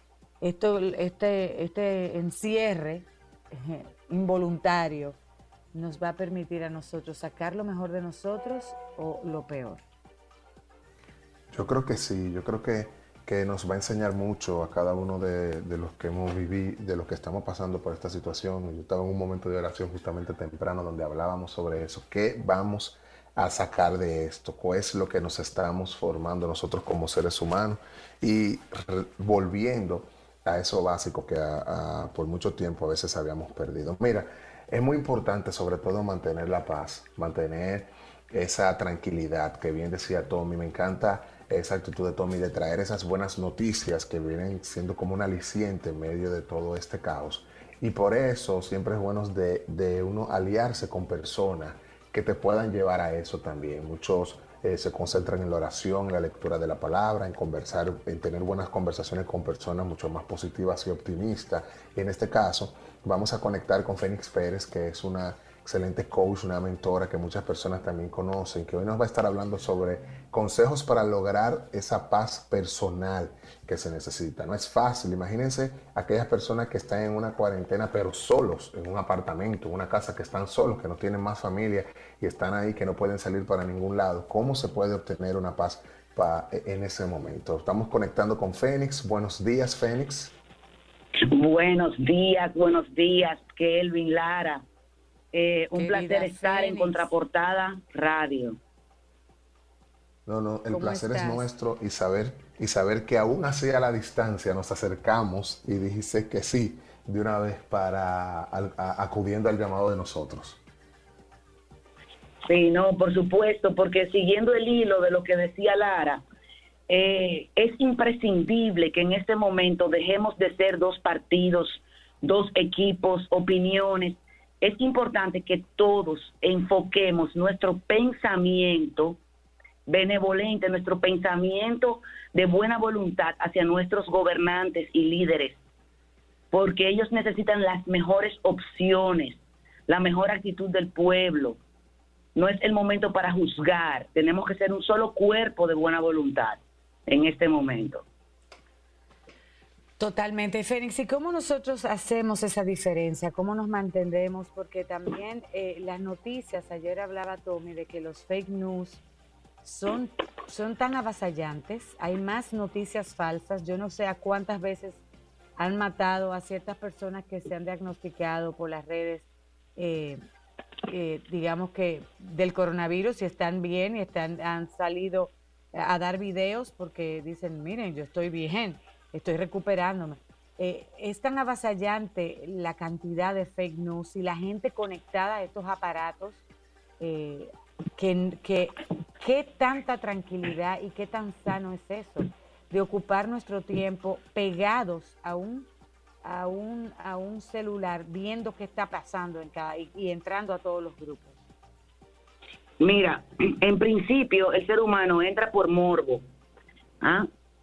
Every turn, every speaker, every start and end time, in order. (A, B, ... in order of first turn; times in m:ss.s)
0:00.4-0:05.2 A
0:05.7-0:09.8 A
0:11.5-1:30.3 B
1:31.2-1:34.6 C
1:35.3-1:38.6 C
1:35.7-1:37.1 A
1:40.2-1:50.6 B
1:40.7-1:41.5 A
1:52.4-1:56.2 C
1:56.9-2:09.2 C
2:09.9-2:15.6 C
2:16.5-2:21.6 C
2:22.3-2:28.0 C
2:30.0-2:39.0 A
2:39.6-2:45.0 A
2:45.6-2:49.2 A
2:49.8-2:50.2 A
2:50.9-3:06.4 A
3:07.0-3:15.7 A
3:16.2-3:21.4 A
3:22.8-3:26.2 C
3:27.0-3:27.3 C